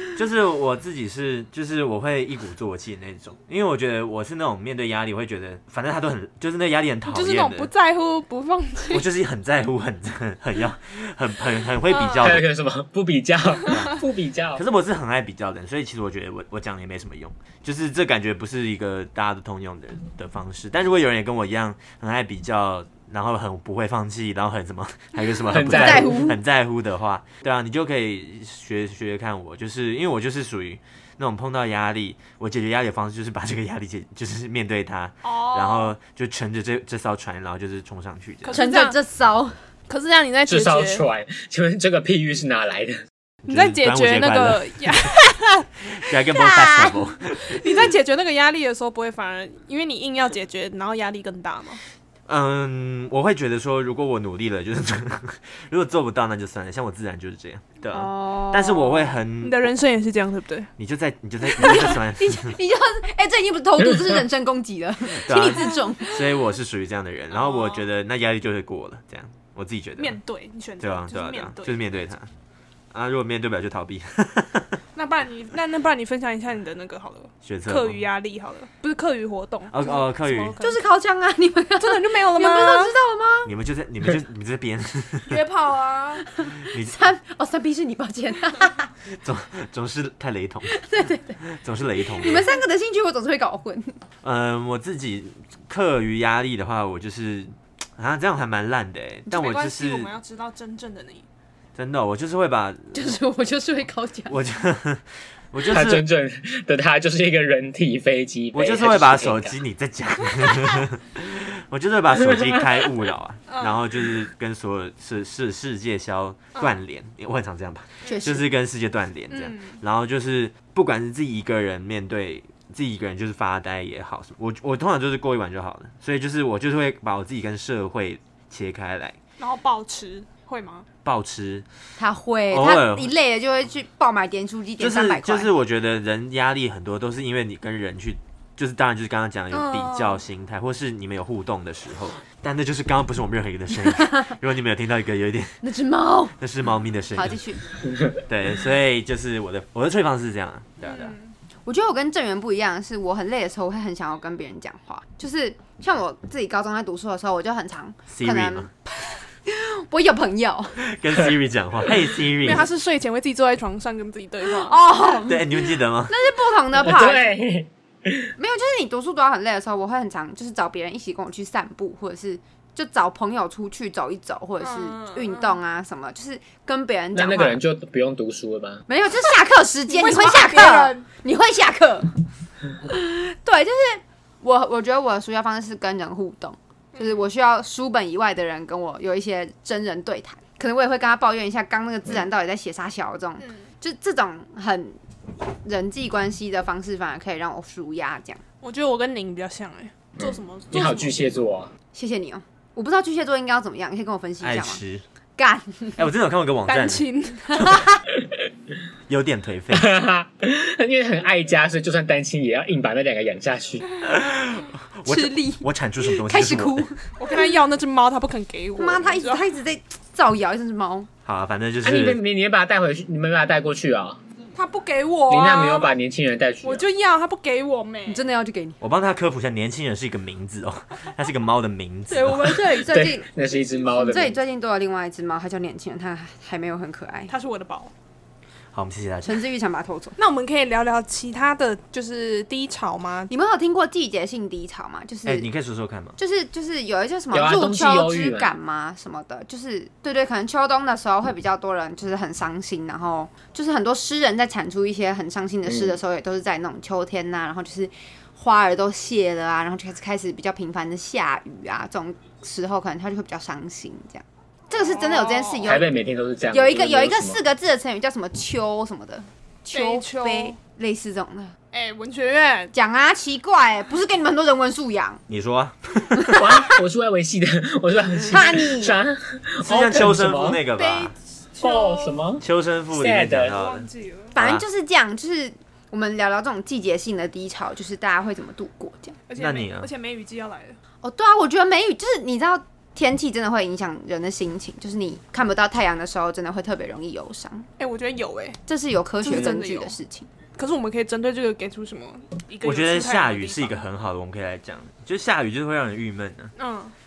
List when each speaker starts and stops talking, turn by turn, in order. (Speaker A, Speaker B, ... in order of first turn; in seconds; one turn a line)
Speaker A: 0.1-7.7
Speaker B: 7.1-9.1
Speaker A: 8.9-12.5
Speaker B: 11.9-12.4
Speaker C: 12.2-14.6
Speaker A: 13.7-14.0
Speaker A: 14.5-38.6
Speaker C: 25.5-26.3
Speaker D: 25.7-26.4
Speaker B: 35.2-35.9
Speaker B: 38.4-39.0
Speaker D: 38.5-39.6
Speaker B: 39.9-41.0
Speaker C: 40.5-43.0
Speaker A: 43.4-44.9
Speaker B: 43.5-45.6
Speaker A: 45.9-47.7
Speaker D: 46.3-47.0
Speaker B: 47.4-51.8
Speaker A: 52.3-59.7
Speaker D: 57.9-59.2
Speaker B: 59.4-60.7
Speaker A: 60.8-62.6
Speaker D: 61.5-66.2
Speaker A: 65.1-70.2
Speaker B: 67.3-67.8
Speaker B: 70.0-71.9
Speaker A: 70.8-72.3
Speaker A: 72.9-74.8
Speaker B: 74.9-80.8
Speaker A: 77.4-78.0
Speaker A: 79.7-80.5
Speaker D: 80.6-83.5
Speaker B: 81.8-82.9
Speaker A: 83.5-85.4
Speaker B: 85.3-86.2
Speaker D: 86.4-88.9
Speaker A: 86.5-87.0
Speaker A: 89.2-90.7
Speaker D: 90.7-91.4
Speaker A: 91.4-92.5
Speaker D: 92.2-94.0
Speaker A: 94.2-100.1
Speaker B: 99.3-101.2
Speaker A: 101.8-103.2
Speaker D: 102.9-104.3
Speaker A: 104.3-106.0
Speaker C: 105.7-109.6
Speaker A: 108.5-129.2
Speaker B: 113.5-113.8
Speaker D: 118.0-118.5
Speaker B: 119.3-119.8
Speaker B: 129.4-130.9
Speaker A: 131.0-131.6
Speaker D: 132.0-135.5
Speaker A: 132.5-133.1
Speaker A: 134.8-145.6
Speaker B: 139.5-140.2
Speaker D: 143.8-144.3
Speaker D: 145.6-146.4
Speaker A: 146.4-147.4
Speaker D: 147.1-147.6
Speaker A: 148.2-151.1
Speaker B: 150.8-151.3
Speaker D: 151.7-158.7
Speaker A: 158.1-158.7
Speaker D: 159.4-160.8
Speaker A: 160.8-162.7
Speaker B: 162.3-164.8
Speaker D: 164.4-167.3
Speaker A: 165.2-166.1
Speaker C: 166.7-168.3
Speaker D: 168.4-177.6
Speaker B: 174.6-175.6
Speaker C: 177.1-178.8
Speaker D: 178.9-182.2
Speaker B: 179.9-181.1
Speaker D: 182.8-195.0
Speaker B: 186.9-187.2
Speaker D: 195.6-198.4
Speaker B: 198.6-201.2
Speaker C: 200.2-201.7
Speaker D: 201.9-204.8
Speaker A: 204.4-205.0
Speaker D: 205.4-206.0
Speaker A: 206.0-207.1
Speaker B: 206.7-207.7
Speaker D: 207.5-208.0
Speaker A: 209.1-209.9
Speaker C: 209.7-213.9
Speaker A: 214.0-216.9
Speaker D: 215.0-217.6
Speaker B: 217.2-219.4
Speaker D: 218.8-221.1
Speaker A: 221.2-222.2
Speaker C: 221.8-224.2
Speaker B: 224.5-225.9
Speaker C: 225.3-226.8
Speaker B: 226.6-228.2
Speaker D: 228.1-228.8
Speaker A: 228.8-232.6
Speaker B: 232.1-233.0
Speaker D: 232.4-233.3
Speaker C: 232.9-234.4
Speaker D: 233.9-237.3
Speaker B: 237.3-237.9
Speaker A: 238.7-239.4
Speaker D: 239.2-240.2
Speaker B: 240.2-243.3
Speaker D: 243.3-245.5
Speaker A: 245.2-246.2
Speaker D: 246.2-265.9
Speaker C: 247.3-248.5
Speaker B: 264.7-265.7
Speaker C: 265.6-267.4
Speaker D: 266.5-271.5
Speaker B: 269.7-270.6
Speaker B: 271.7-272.7
Speaker D: 272.7-275.2
Speaker A: 275.3-276.6
Speaker D: 276.1-276.6
Speaker C: 276.3-280.6
Speaker D: 278.3-279.0
Speaker A: 279.6-281.1
Speaker B: 280.7-282.2
Speaker C: 281.6-283.5
Speaker A: 282.4-284.6
Speaker B: 283.5-284.3
Speaker D: 284.3-289.2
Speaker B: 289.3-290.8
Speaker A: 289.4-289.9
Speaker D: 291.0-297.7
Speaker B: 297.8-298.6
Speaker D: 298.7-300.3
Speaker B: 299.2-299.9
Speaker B: 300.6-303.8
Speaker A: 302.6-306.5
Speaker B: 306.6-306.9